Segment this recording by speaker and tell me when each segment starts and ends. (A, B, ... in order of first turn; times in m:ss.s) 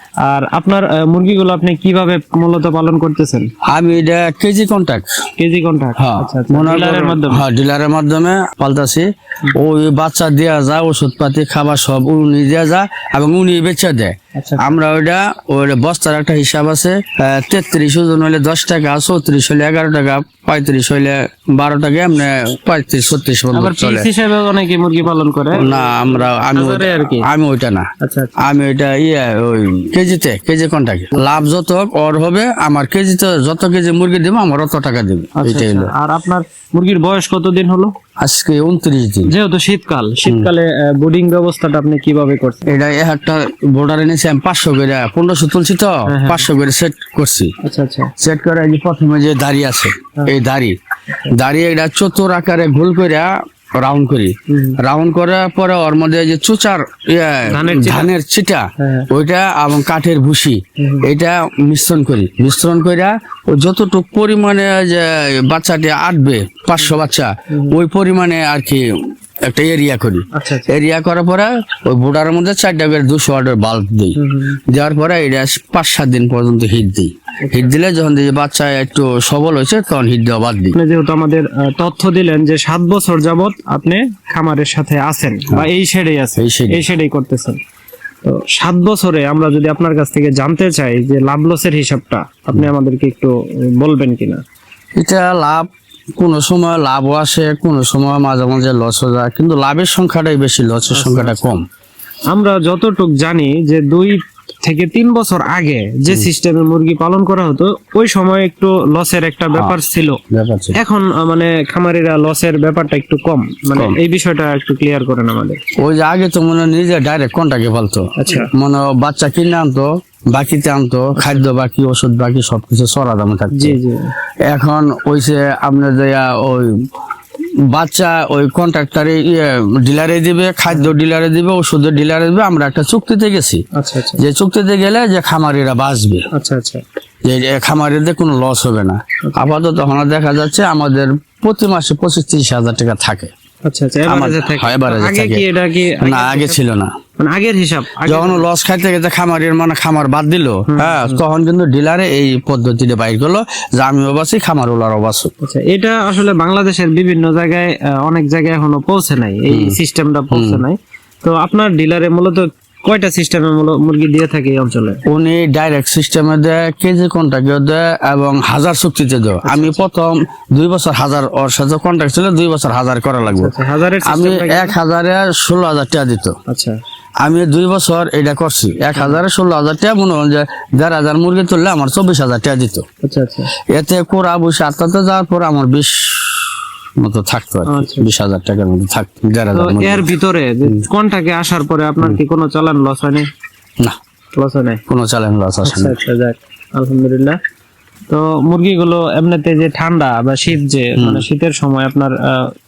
0:00.2-0:03.5 A
0:03.7-0:05.1 B
0:05.4-0:07.4 A
0:06.0-0:24.1 B
0:14.4-0:14.7 A
0:23.5-0:27.3 A
0:25.5-0:27.9 B
0:28.0-0:28.4 A
0:28.4-0:35.9 B
0:35.4-0:37.9 A
0:38.2-0:39.3 B
0:39.3-0:42.6 A
0:40.2-0:40.5 B
0:42.7-0:47.5 B
0:46.1-0:46.5 A
0:47.6-0:48.1 A
0:48.2-0:50.8 B
0:51.3-1:08.8 B
0:54.5-0:54.8 A
0:57.5-0:58.1 A
0:58.8-0:59.1 A
1:00.8-1:01.1 A
1:09.5-1:20.8 B
1:10.3-1:10.7 A
1:14.2-1:14.6 A
1:17.4-1:17.7 A
1:20.7-1:27.6 A
1:26.4-1:26.8 B
1:28.2-1:34.4 A
1:35.0-1:41.6 B
1:40.9-1:41.5 A
1:42.3-1:50.2 A
1:50.3-1:50.8 B
1:50.8-1:55.6 A
1:53.7-1:54.0 B
1:55.8-2:03.8 B
1:58.2-1:58.5 A
2:01.2-2:01.4 A
2:03.5-2:04.1 A
2:04.4-2:06.8 B
2:07.7-2:13.6 B
2:13.8-2:14.2 A
2:14.2-2:16.3 B
2:16.3-2:16.8 A
2:17.3-2:23.3 B
2:23.7-2:26.6 A
2:24.1-2:25.4 B
2:26.0-2:26.9 B
2:27.2-2:28.5 A
2:28.0-2:35.3 B
2:30.7-2:31.2 A
2:35.4-2:45.0 A
2:39.5-2:39.8 B
2:40.3-2:40.6 B
2:45.1-2:56.4 B
2:49.4-2:49.8 A
2:53.3-2:54.8 A
2:56.5-2:56.8 A
2:57.2-3:02.8 B
3:03.0-3:03.5 A
3:03.7-3:10.1 B
3:07.7-3:08.1 A
3:09.5-3:13.2 A
3:14.3-3:14.8 A
3:14.9-3:16.0 B
3:15.6-3:17.4 A
3:18.1-3:22.5 A
3:21.0-3:21.2 B